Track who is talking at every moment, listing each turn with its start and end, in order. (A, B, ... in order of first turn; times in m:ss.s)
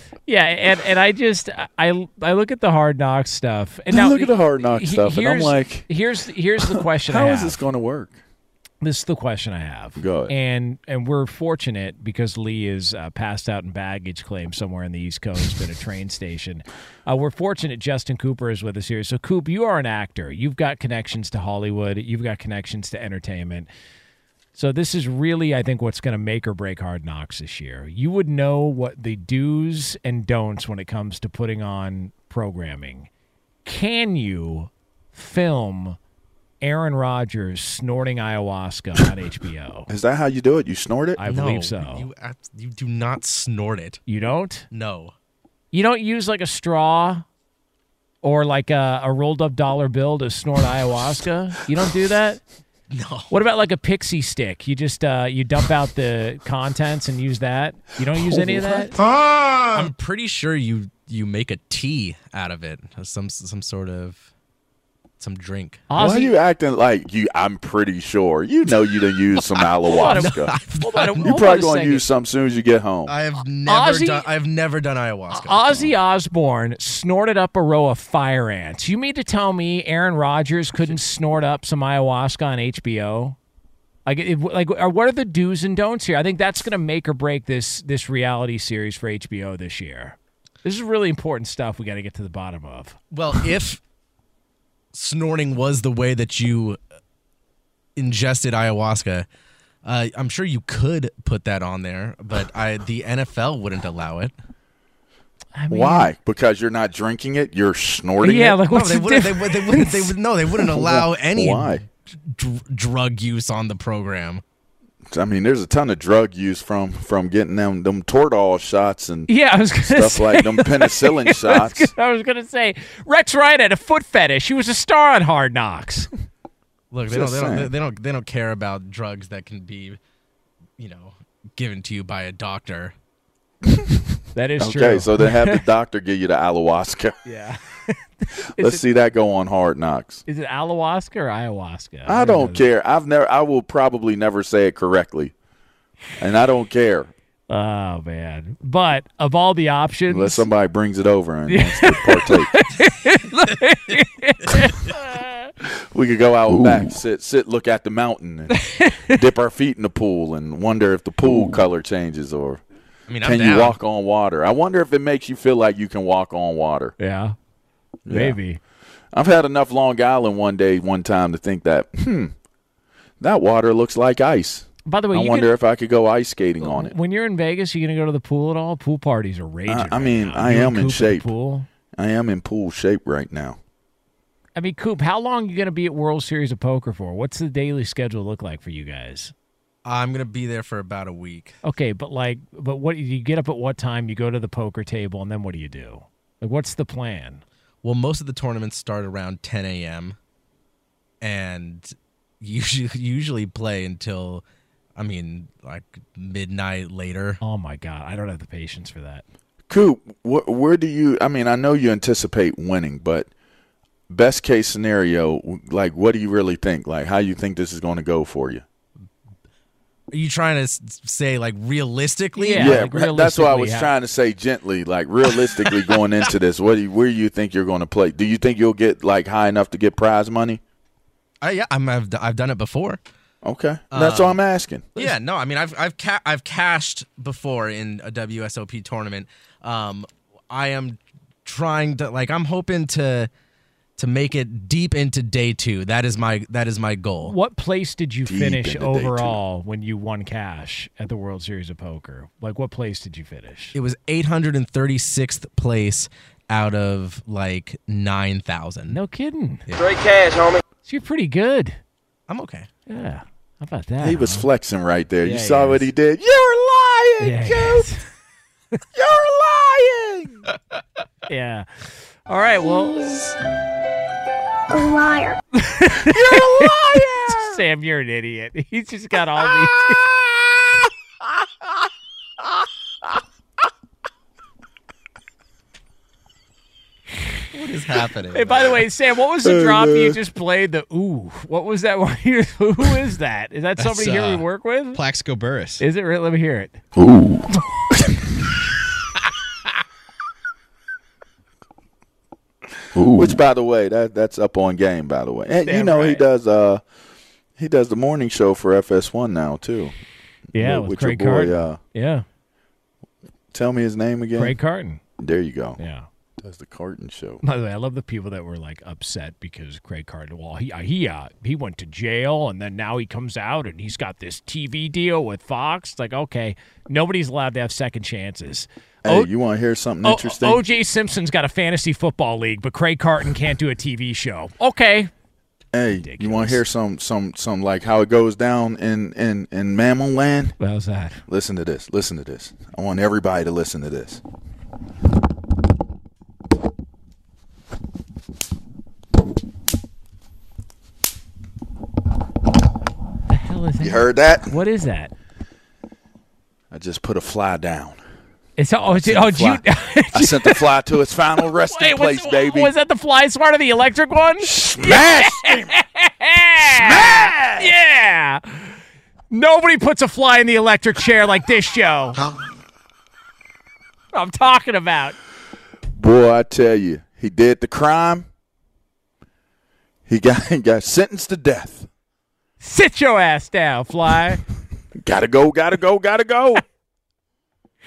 0:00.3-0:07.6 A
0:03.9-0:05.9 B
0:06.6-0:08.2 B
0:08.8-0:23.7 A
0:10.0-0:10.3 B
0:24.5-0:33.1 A
0:33.6-0:36.0 A
0:36.6-0:39.9 A
0:39.9-0:41.2 B
0:41.2-0:42.0 A
0:41.2-0:44.0 C
0:44.1-0:44.7 A
0:44.7-0:45.1 C
0:45.7-0:47.2 A
0:48.2-0:52.4 A
0:52.9-0:53.3 C
0:53.3-0:59.0 A
0:58.1-0:58.9 B
0:59.6-1:04.3 C
1:05.2-1:05.8 C
1:05.9-1:06.3 A
1:06.0-1:10.5 B
1:09.9-1:12.0 A
1:10.1-1:11.3 C
1:11.2-1:13.1 B
1:13.1-1:15.9 C
1:13.7-1:14.3 A
1:15.4-1:23.4 A
1:24.0-1:33.0 A
1:33.1-1:33.8 C
1:34.9-1:36.8 C
1:38.0-1:39.2 C
1:39.8-1:44.3 C
1:45.6-1:46.1 A
1:45.7-1:48.6 B
1:48.2-1:50.1 A
1:48.7-1:54.4 C
1:50.7-1:51.8 B
1:55.1-2:01.9 B
1:59.3-2:06.1 A
2:06.9-2:10.0 C
2:07.1-2:07.7 B
2:10.8-2:12.9 C
2:14.3-2:15.6 A
2:14.6-2:17.2 B
2:17.2-2:18.8 A
2:18.6-2:20.2 B
2:20.3-2:22.6 A
2:22.0-2:25.3 B
2:26.2-2:27.1 B
2:27.5-2:30.5 A
2:30.1-2:32.5 B
2:31.5-2:35.5 A
2:35.8-2:42.6 B
2:38.5-2:39.2 A
2:43.1-2:43.8 C
2:43.2-2:46.9 B
2:47.0-2:47.4 A
2:48.0-2:48.4 B
2:48.1-2:48.6 A
2:49.1-2:52.3 B
2:53.2-2:56.9 B
2:54.8-2:55.5 A
2:56.6-3:01.7 A
2:59.7-3:01.3 B
3:02.0-3:03.6 B
3:04.6-3:09.3 A
3:09.8-3:11.6 C
3:11.6-3:17.4 A
3:17.8-3:20.2 C
3:21.2-3:24.4 C
3:25.0-3:27.4 C
3:27.4-3:29.2 A
3:29.7-3:33.3 B
3:34.1-3:38.6 B
3:40.1-3:42.8 C
3:42.4-3:43.9 A
3:42.6-3:50.6 B
3:51.4-3:53.0 C
3:53.4-3:55.1 B
3:53.9-3:54.4 C
3:55.0-4:03.3 C
4:04.0-4:07.3 C
4:07.2-4:13.7 A
4:08.2-4:09.4 B
4:13.7-4:19.0 C
4:18.9-4:19.6 A
4:19.7-4:20.0 C
4:20.8-4:21.8 A
4:22.3-4:22.7 C
4:22.9-4:24.5 A
4:24.0-4:27.9 B
4:25.2-4:25.9 A
4:27.2-4:28.0 A
4:28.9-4:30.5 B
4:31.3-4:33.3 A
4:35.5-4:40.0 A
4:36.0-4:37.6 B
4:47.5-4:48.7 C
4:48.3-4:55.0 A
4:49.4-4:50.2 B
4:53.8-4:55.8 D
4:55.8-4:56.8 A
4:57.0-4:57.5 B
5:03.0-5:06.8 B
5:05.6-5:06.2 A
5:07.6-5:09.9 B
5:10.5-5:11.8 B
5:10.5-5:12.2 A
5:13.5-5:14.6 B
5:14.3-5:15.0 A
5:15.2-5:15.8 B
5:15.8-5:16.0 A
5:16.4-5:17.4 B
5:17.4-5:29.3 A
5:29.0-5:30.6 B
5:30.0-5:35.1 A
5:35.7-5:40.5 B
5:36.0-5:36.6 A
5:40.6-5:41.2 A
5:41.3-5:44.2 B
5:53.3-5:55.1 A
5:53.8-5:54.5 B
5:56.7-5:58.0 B
5:58.6-6:00.6 A
5:58.9-6:02.7 B
6:01.6-6:08.7 A
6:04.4-6:05.7 B
6:06.6-6:07.7 B
6:09.3-6:12.2 A
6:14.1-6:15.2 A
6:15.9-6:18.3 B
6:20.1-6:21.9 B
6:22.6-6:24.4 A
6:24.9-6:26.6 B